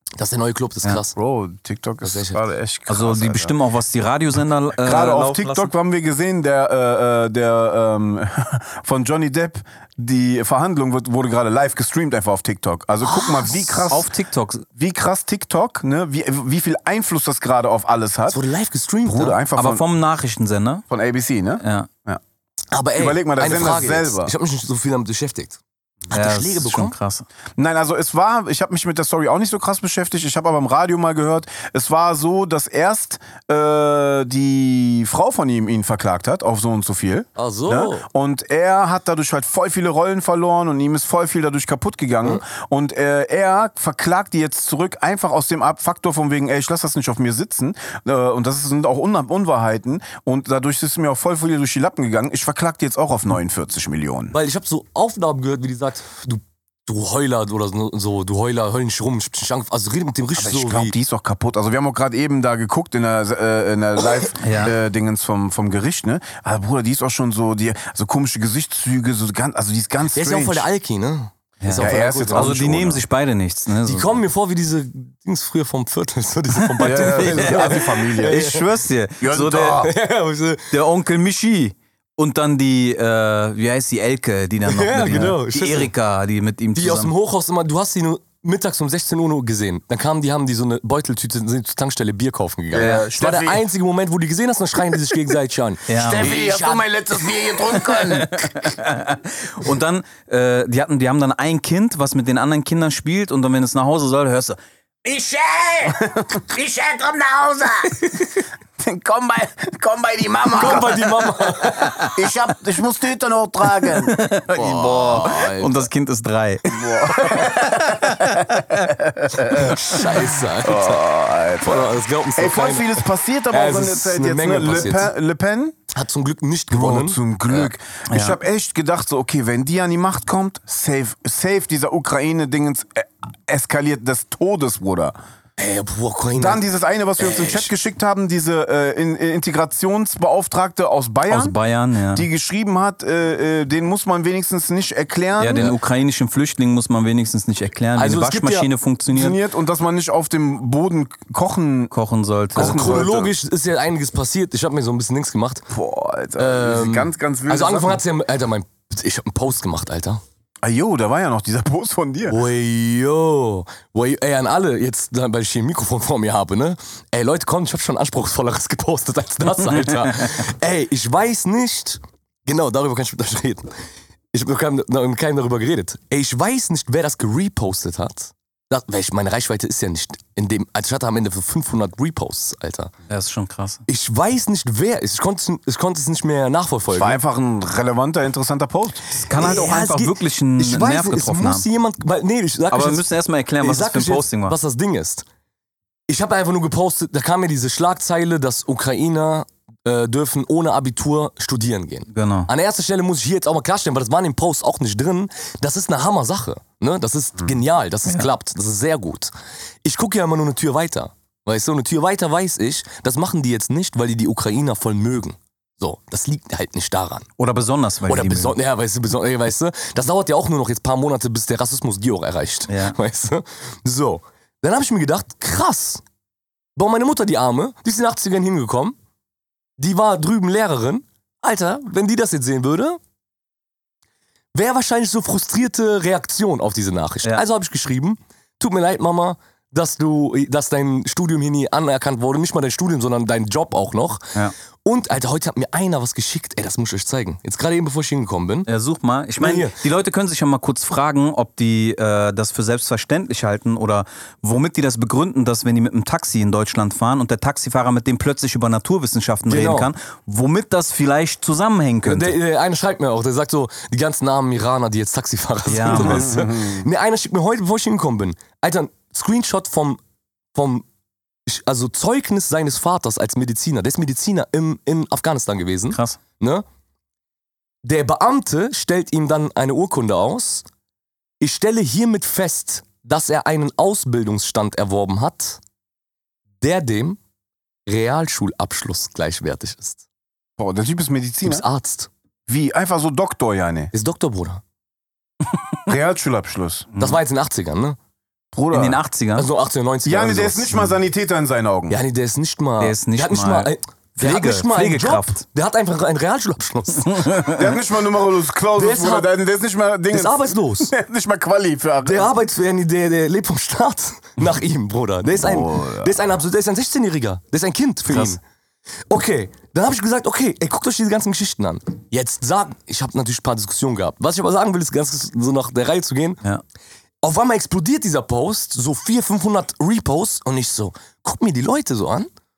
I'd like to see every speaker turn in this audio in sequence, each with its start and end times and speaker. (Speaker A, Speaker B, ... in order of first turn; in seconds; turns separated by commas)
Speaker A: 0.2-1.1, Speaker B: 1.1-3.5, Speaker A: 2.0-2.4, Speaker C: 2.9-5.7, Speaker B: 4.8-14.1, Speaker A: 13.1-13.8, Speaker C: 13.9-14.7, Speaker B: 14.8-18.4, Speaker A: 18.3-19.4, Speaker B: 19.0-19.8, Speaker C: 19.6-20.8, Speaker B: 20.9-22.2, Speaker C: 21.6-21.9, Speaker A: 22.7-27.0, Speaker B: 23.0-24.3, Speaker C: 26.1-27.2, Speaker B: 27.6-54.4, Speaker A: 37.4-38.1, Speaker A: 54.3-61.0, Speaker B: 60.4-70.7, Speaker C: 64.4-64.7, Speaker A: 70.1-72.5, Speaker C: 71.6-74.2, Speaker B: 71.8-73.0, Speaker A: 73.8-78.7, Speaker C: 76.8-79.9, Speaker B: 76.8-78.4, Speaker B: 79.2-79.9, Speaker A: 79.6-80.7, Speaker C: 80.7-87.1, Speaker A: 84.7-85.9, Speaker A: 86.8-96.8, Speaker B: 92.7-93.6, Speaker C: 92.8-93.1, Speaker C: 95.9-96.3, Speaker B: 96.0-98.7, Speaker D: 96.1-98.2, Speaker C: 97.9-104.6, Speaker D: 105.0-105.8, Speaker B: 105.3-108.0, Speaker D: 106.7-107.3, Speaker B: 108.8-111.0, Speaker A: 110.5-112.1, Speaker B: 112.1-114.2, Speaker C: 113.8-118.9, Speaker A: 114.6-115.9, Speaker B: 116.7-119.8, Speaker A: 117.2-117.5, Speaker A: 119.5-121.0, Speaker B: 120.6-125.8, Speaker A: 121.6-125.1, Speaker A: 125.9-127.7, Speaker B: 126.7-135.2, Speaker C: 128.1-128.4, Speaker A: 135.6-136.6, Speaker B: 136.4-141.5, Speaker A: 137.2-137.7, Speaker C: 141.3-142.3, Speaker B: 142.1-145.7, Speaker C: 145.4-149.4, Speaker A: 148.0-148.7, Speaker B: 149.1-151.9, Speaker C: 151.9-153.1, Speaker B: 152.5-153.3, Speaker A: 152.6-155.7, Speaker B: 155.7-158.0, Speaker A: 156.4-160.2, Speaker B: 160.6-162.4, Speaker A: 162.3-173.8, Speaker A: 174.3-182.9, Speaker C: 183.1-183.8, Speaker A: 183.9-187.2, Speaker B: 186.9-189.1, Speaker C: 189.1-191.7, Speaker A: 189.3-193.0, Speaker C: 192.7-194.6, Speaker A: 193.6-195.2, Speaker A: 196.1-209.3, Speaker C: 202.1-202.5, Speaker A: 209.8-217.3, Speaker C: 217.4-218.6, Speaker A: 218.1-226.0, Speaker C: 222.7-223.0, Speaker A: 226.8-229.0, Speaker A: 229.8-233.0, Speaker A: 234.6-248.7, Speaker C: 248.7-262.4, Speaker A: 249.4-249.8, Speaker A: 259.5-259.9, Speaker A: 262.0-270.0, Speaker C: 265.7-266.3, Speaker B: 266.0-266.9, Speaker A: 270.5-270.9, Speaker A: 271.5-276.6, Speaker C: 275.9-276.2, Speaker A: 277.8-280.6, Speaker A: 281.4-285.6, Speaker A: 286.6-287.2, Speaker A: 287.9-290.0, Speaker B: 290.6-291.6, Speaker A: 291.4-292.1, Speaker B: 292.5-293.9, Speaker A: 293.9-294.6, Speaker B: 295.9-296.9, Speaker C: 296.9-297.2, Speaker A: 297.0-298.0, Speaker B: 298.5-299.0, Speaker C: 298.7-299.5, Speaker A: 299.4-300.7, Speaker B: 300.1-302.0, Speaker A: 301.9-307.5, Speaker C: 302.8-305.4, Speaker C: 307.1-307.6, Speaker B: 307.5-312.3, Speaker A: 308.8-309.3, Speaker A: 310.1-310.9, Speaker A: 312.0-318.4, Speaker B: 315.4-316.1, Speaker C: 318.1-318.4, Speaker A: 319.1-326.4, Speaker A: 327.2-332.3